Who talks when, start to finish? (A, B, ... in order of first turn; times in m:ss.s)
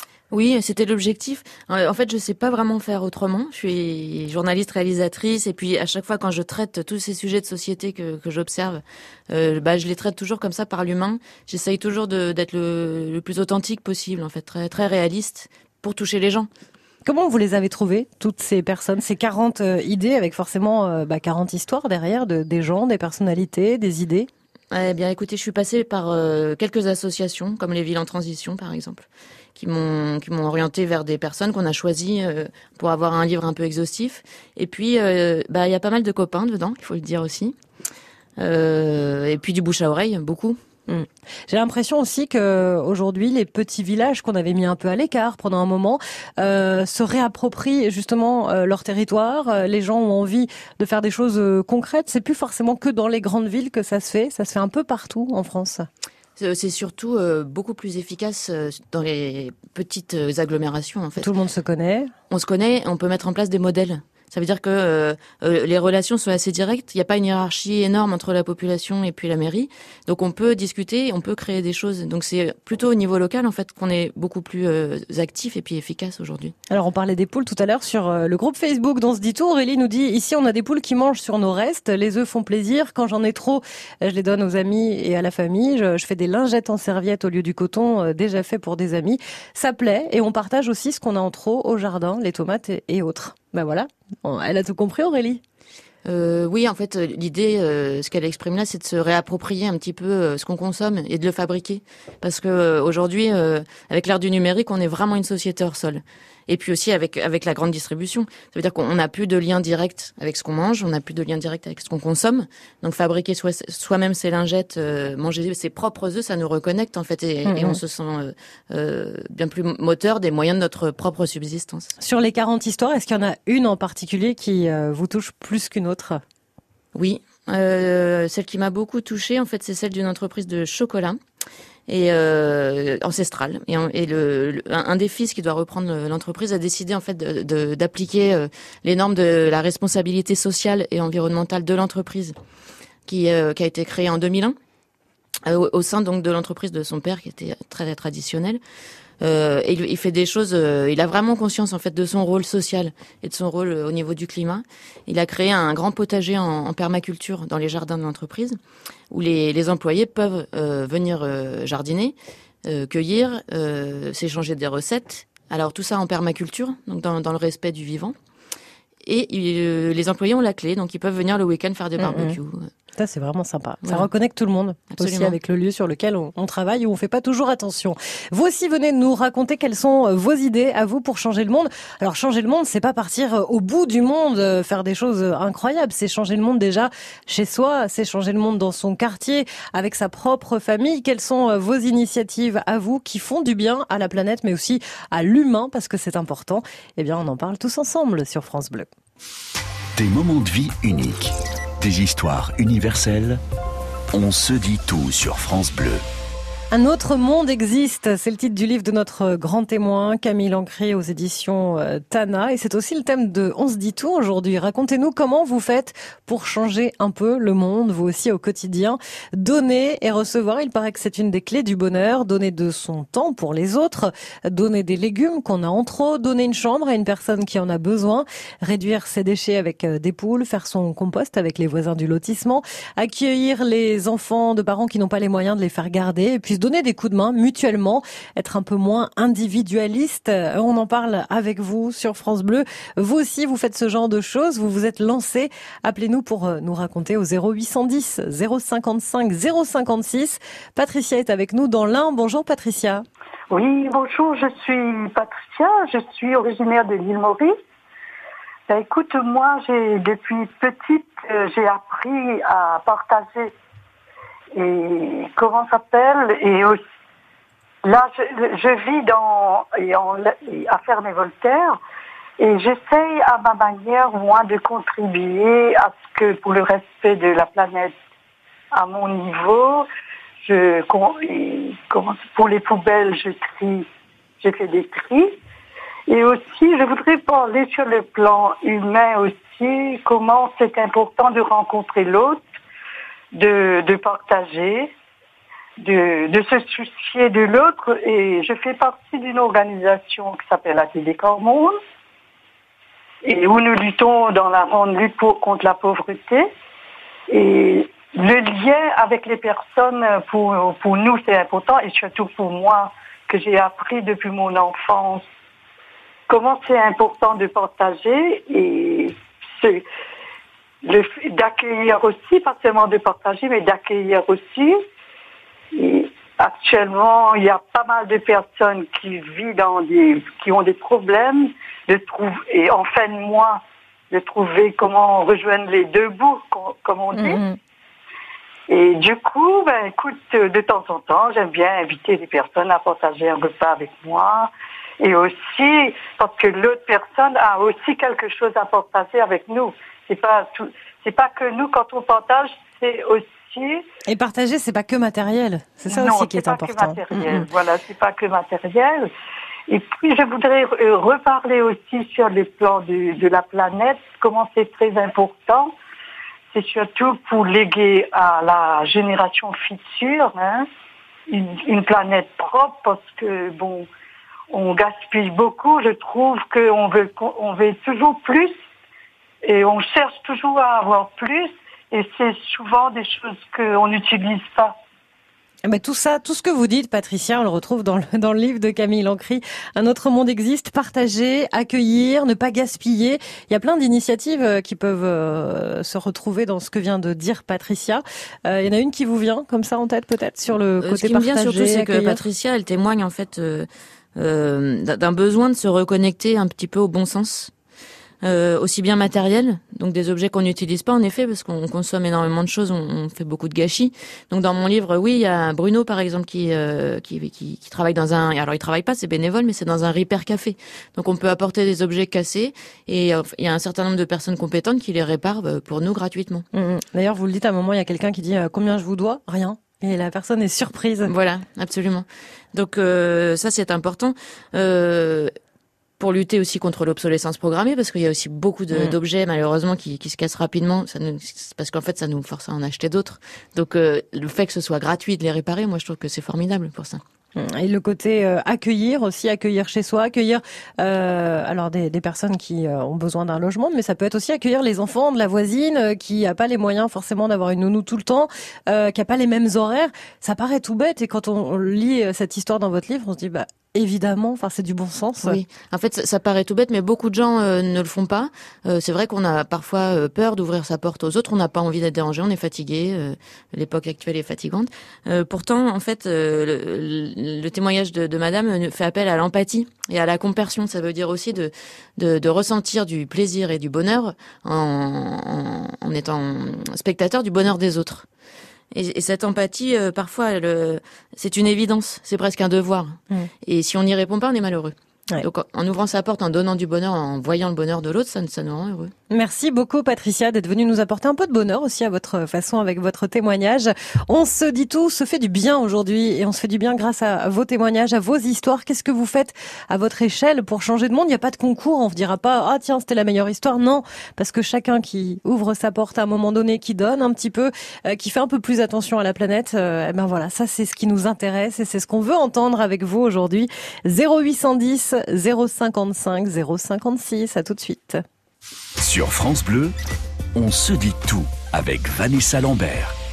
0:00.3-0:16.5 A
0:17.0-0:24.3 B
0:24.7-0:37.6 A
0:38.4-0:40.6 A
0:40.9-0:55.9 B
0:56.4-1:01.3 A
1:01.2-1:02.1 B
1:02.3-1:16.5 A
1:16.7-1:35.4 B
1:36.0-2:02.0 A
1:57.4-1:57.8 B
2:02.0-2:06.2 B
2:06.9-2:11.2 A
2:11.9-2:22.4 A
2:23.1-2:24.6 A
2:25.4-2:28.6 A
2:29.2-2:38.6 A
2:39.1-2:48.1 A
2:49.0-2:52.7 A
2:52.0-2:52.4 B
2:53.0-3:18.9 B
2:54.9-2:55.4 A
3:20.0-3:23.4 C
3:24.1-3:26.0 C
3:26.7-4:13.0 B
4:13.5-4:17.5 D
4:18.7-4:23.5 D
4:24.5-4:26.8 D
4:27.8-4:31.8 D
4:32.4-4:37.9 D
4:38.7-4:39.8 D
4:40.4-4:43.8 D
4:44.4-4:45.4 D
4:46.1-4:52.4 D
4:53.3-4:54.9 D
4:55.8-5:01.8 D
5:03.2-5:06.5 D
5:07.3-5:15.2 D
5:16.3-5:19.8 D
5:20.8-5:24.8 D
5:25.7-5:37.4 D
5:37.1-5:37.6 B
5:38.7-5:53.8 D
5:54.1-5:57.4 B
5:55.9-5:59.1 D
5:59.7-6:05.7 D
6:06.5-6:10.7 D
6:11.3-6:13.9 D
6:14.5-6:18.5 D
6:19.4-6:24.7 D
6:25.6-6:42.2 B
6:40.8-6:47.5 A
6:48.2-7:06.4 A
7:06.5-7:11.1 B
7:11.0-7:15.3 A
7:16.0-7:27.0 A
7:27.4-7:45.4 B
7:45.2-8:08.0 A
8:08.7-8:18.9 A
8:19.1-8:48.0 B
8:48.8-8:49.7 C
8:50.3-8:53.0 C